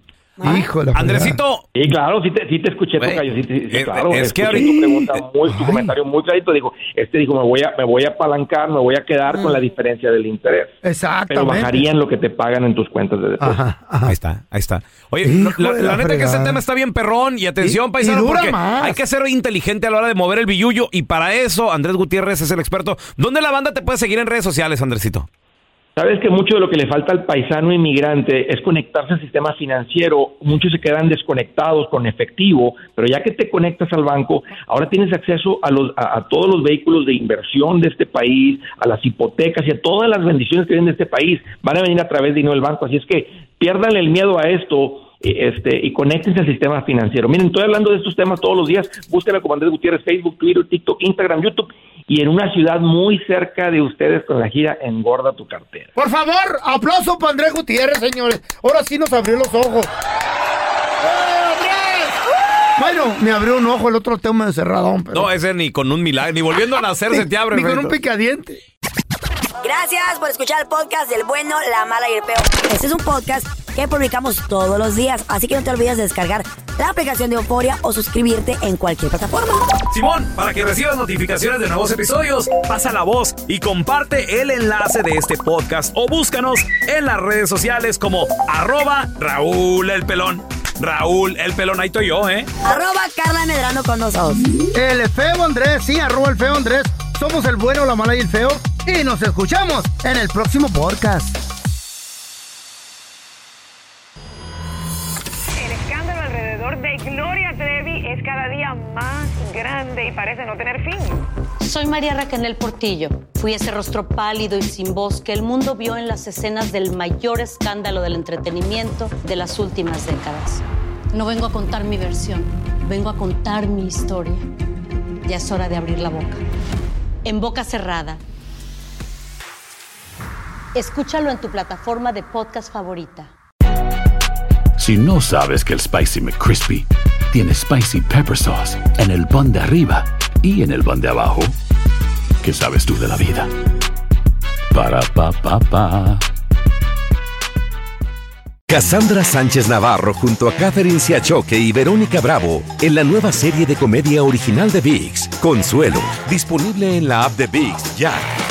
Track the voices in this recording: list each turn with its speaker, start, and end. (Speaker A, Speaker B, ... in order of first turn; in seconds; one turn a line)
Speaker A: 0.4-0.7
Speaker B: 0.4-1.4
Speaker C: 0.9-1.6
Speaker D: 1.8-10.8
Speaker C: 3.0-5.0
Speaker B: 5.5-6.0
Speaker A: 9.3-9.6
Speaker B: 10.8-11.9
Speaker D: 11.3-13.6
Speaker B: 13.4-14.2
Speaker C: 14.1-25.3
Speaker B: 15.2-16.6
Speaker B: 17.6-19.0
Speaker D: 26.0-55.9
Speaker B: 56.0-59.9
Speaker B: 61.0-62.2
Speaker B: 62.8-65.3
Speaker C: 65.1-68.0
Speaker B: 67.1-68.6
Speaker A: 69.6-79.7
Speaker C: 79.9-92.5
Speaker A: 92.6-94.5
Speaker B: 94.7-101.4
Speaker E: 105.6-111.2
Speaker F: 111.6-124.5
Speaker F: 125.3-126.4
Speaker F: 127.3-128.2
Speaker F: 130.8-133.3
Speaker G: 134.8-141.6
Speaker G: 142.4-143.5
Speaker G: 144.7-146.2
Speaker H: 148.7-158.2